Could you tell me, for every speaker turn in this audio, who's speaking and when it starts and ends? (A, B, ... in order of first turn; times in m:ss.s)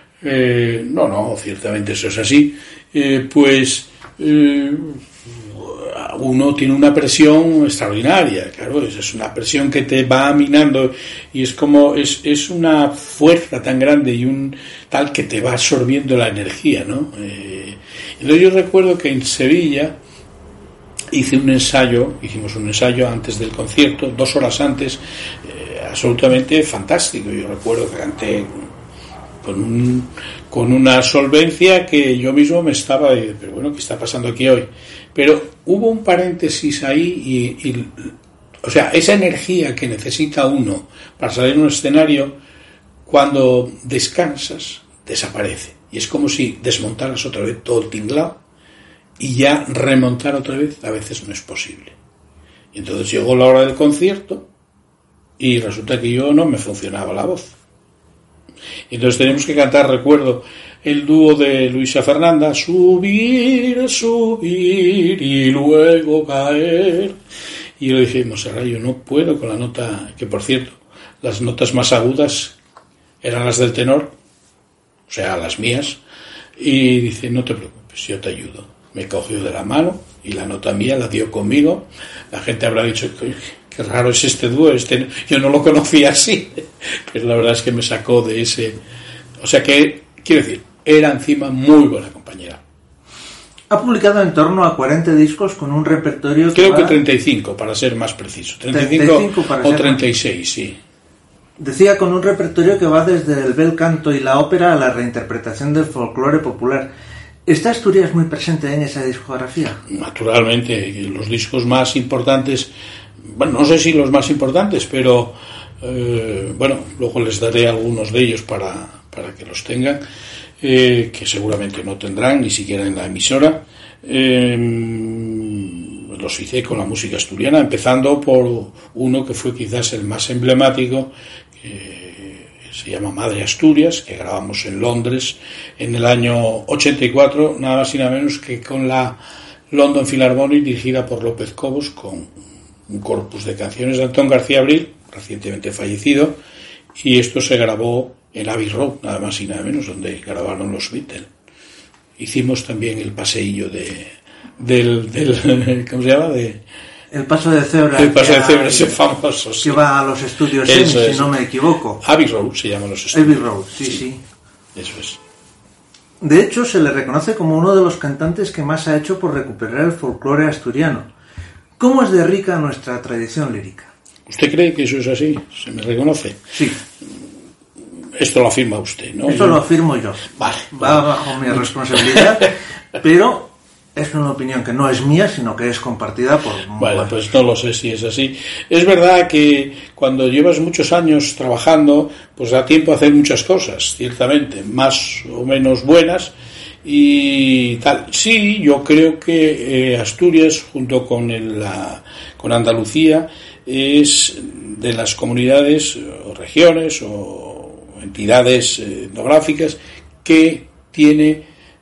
0:00.2-0:20.0 A
0:21.1-0:28.6 A
0:29.4-0:42.4 A
0:43.0-0:48.4 A
0:49.2-0:52.0 A
0:52.7-0:54.5 A
0:55.4-0:57.5 A
0:58.9-1:07.2 A
1:07.8-1:12.6 A
1:13.2-1:14.2 A
1:15.1-1:16.0 A
1:16.6-1:28.8 A
1:29.4-1:32.6 A
1:33.7-1:37.0 B
1:36.5-1:40.8 A
1:38.7-1:40.0 B
1:41.6-1:46.9 B
1:47.5-1:49.8 B
1:49.9-1:52.7 A
1:53.3-2:00.0 A
2:00.6-2:19.2 A
2:19.7-2:22.3 A
2:22.9-2:26.4 A
2:27.0-2:31.3 A
2:32.2-2:36.6 A
2:37.1-2:39.0 B
2:37.9-2:39.8 A
2:39.6-2:42.0 B
2:40.6-2:41.4 A
2:42.0-2:43.8 A
2:43.1-2:44.2 B
2:44.7-2:45.2 A
2:46.2-2:51.1 B
2:51.8-2:53.9 B
2:54.3-2:56.4 A
2:56.5-2:56.8 B
2:58.2-2:59.6 A
2:59.3-3:07.2 B
3:00.3-3:01.2 A
3:01.9-3:02.2 A
3:06.8-3:16.3 A
3:16.8-3:31.4 A